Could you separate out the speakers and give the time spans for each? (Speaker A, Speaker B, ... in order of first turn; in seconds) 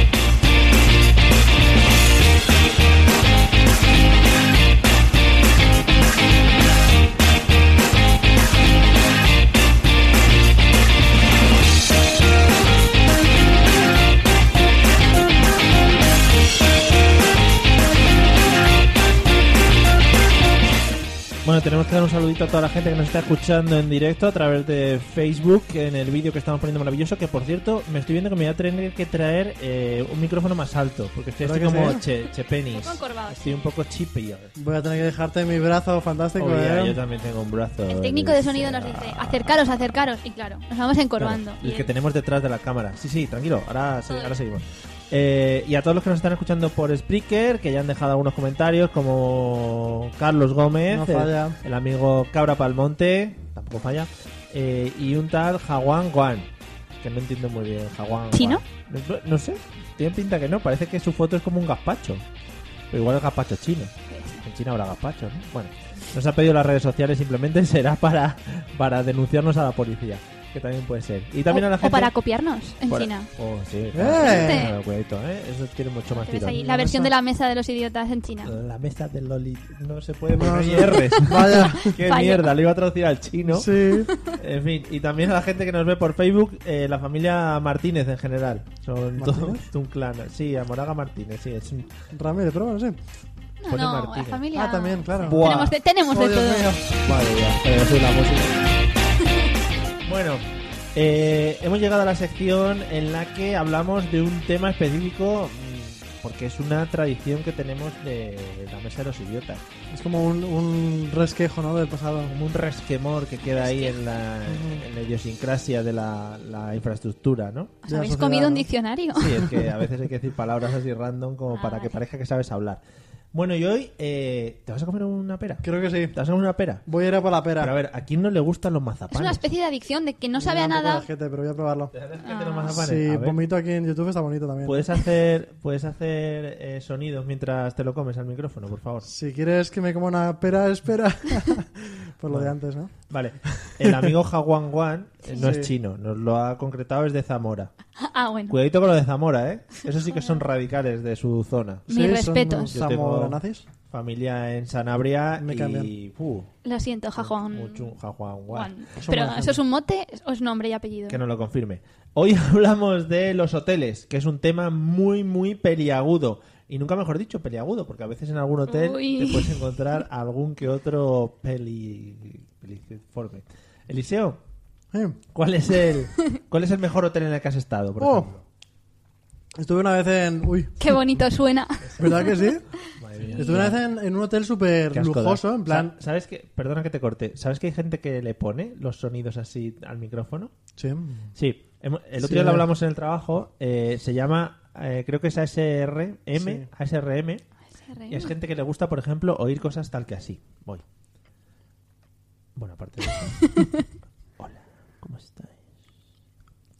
Speaker A: 21.4-34.5, 36.4-39.6, 41.2-56.5, 57.0-62.2, 62.9-72.1, 72.9-76.6, 78.4-91.9, 93.7-94.4, 95.2-95.8, 97.0-98.6, 100.0-100.4, 100.9-109.6, 112.2-117.7, 119.1-122.8, 123.3-126.8, 127.6-129.4, 131.9-133.4, 134.6-139.1, 142.3-142.6, 143.1-147.7, 148.5-151.9, 152.7-156.5, 157.2-158.7, 161.1-174.4, 175.3-178.4, 181.8-182.3, 182.8-183.8, 184.9-190.5, 191.3-197.4, 198.1-200.8, 202.6-203.5, 204.4-205.6
Speaker B: 31.4-32.0, 34.5-37.0, 50.9-51.6, 73.9-74.7, 76.5-77.1, 80.3-82.0, 83.5-84.1, 89.2-89.7, 92.1-93.0, 94.5-95.6, 96.1-97.0, 109.9-112.3, 114.5-114.8, 117.9-118.7, 125.6-126.2, 126.8-127.7, 130.4-131.9, 132.7-134.9, 139.0-142.9, 143.4-144.1, 145.4-145.7, 151.9-153.6, 155.4-155.9, 158.9-159.6, 174.9-175.2, 178.0-178.3, 179.5-180.8, 182.0-182.6, 183.3-185.9, 190.8-191.3, 192.2-192.7, 196.3-196.7
Speaker C: 32.7-33.6, 37.9-41.9, 44.1-44.4, 58.3-58.6, 64.1-64.4, 71.5-73.3, 74.2-74.8, 76.1-78.5, 81.7-82.5, 84.0-84.3, 93.6-96.7, 113.4-114.1, 117.8-119.5, 121.5-122.0, 129.1-131.1, 132.2-132.8, 145.2-145.5, 148.0-148.6, 150.0-150.4, 151.9-152.7, 156.6-157.9, 158.5-161.2, 168.7-169.7, 180.8-182.5, 183.2-183.6, 197.8-198.3, 203.4-203.8